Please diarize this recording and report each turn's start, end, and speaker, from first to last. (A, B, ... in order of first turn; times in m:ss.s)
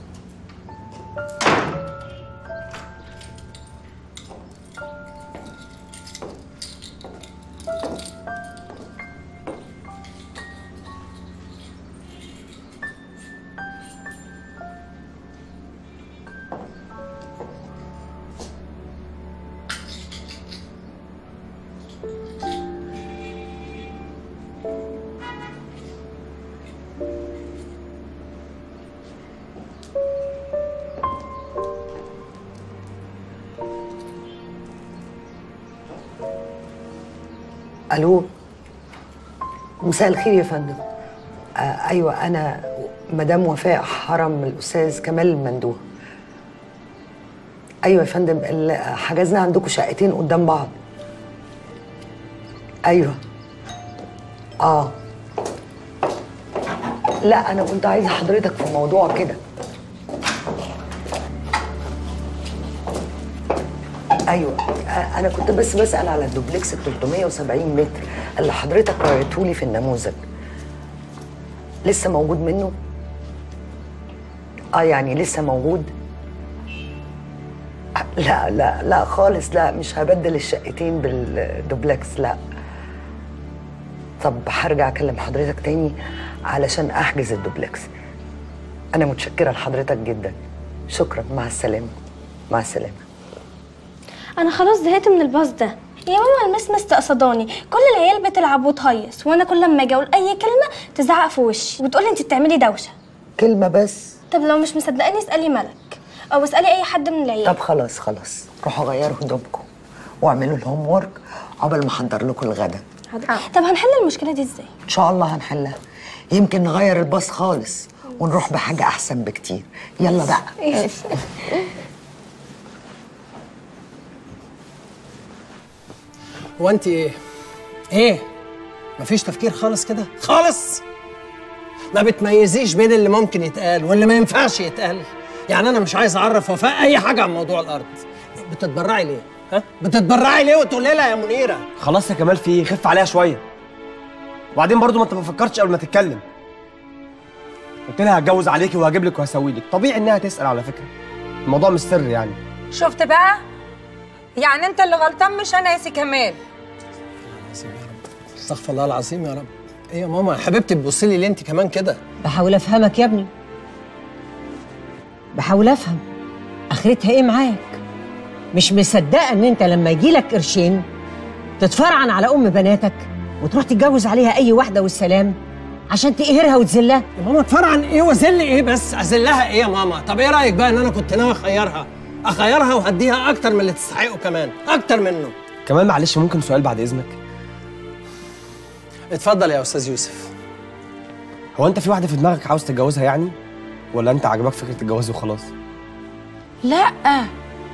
0:37.9-0:38.3 A
0:39.8-0:40.8 A
0:41.6-0:45.8 A
0:47.8-0:50.8 A
0:52.9-0:53.2 A
0:54.6-0:55.0 A
0:57.2-0:59.4 A
1:04.3-1:10.2 A
1:11.8-1:12.8 A
1:14.8-1:15.9 A
1:18.0-1:22.4 A
1:24.2-1:26.0 A
1:26.5-1:27.9 A
1:29.0-1:30.4 A
1:30.9-1:32.0 A
1:32.5-1:33.0 A
1:34.4-1:42.9 B
1:43.4-1:44.2 A
1:44.3-1:47.6 B
1:47.4-1:49.7 A
1:50.2-1:52.8 A
1:53.4-1:54.7 B
1:54.9-1:55.8 A
1:56.3-2:01.1 A
2:06.6-2:07.2 C
2:07.9-2:08.3 C
2:09.0-2:10.8 C
2:11.9-2:21.6 C
2:21.8-2:23.4 D
2:24.6-2:26.2 D
2:27.9-2:30.9 D
2:31.5-2:32.4 D
2:32.7-2:33.4 E
2:34.4-2:36.4 E
2:37.3-2:42.0 C
2:42.2-2:43.3 F
2:45.4-2:46.0 F
2:46.7-2:47.8 F
2:48.5-2:50.8 F
2:51.6-2:55.4 F
2:55.9-2:57.0 F
2:57.2-3:05.3 C
3:05.7-3:07.2 D
3:09.1-3:10.3 C
3:11.6-3:13.4 D
3:13.9-3:15.5 D
3:16.6-3:17.3 E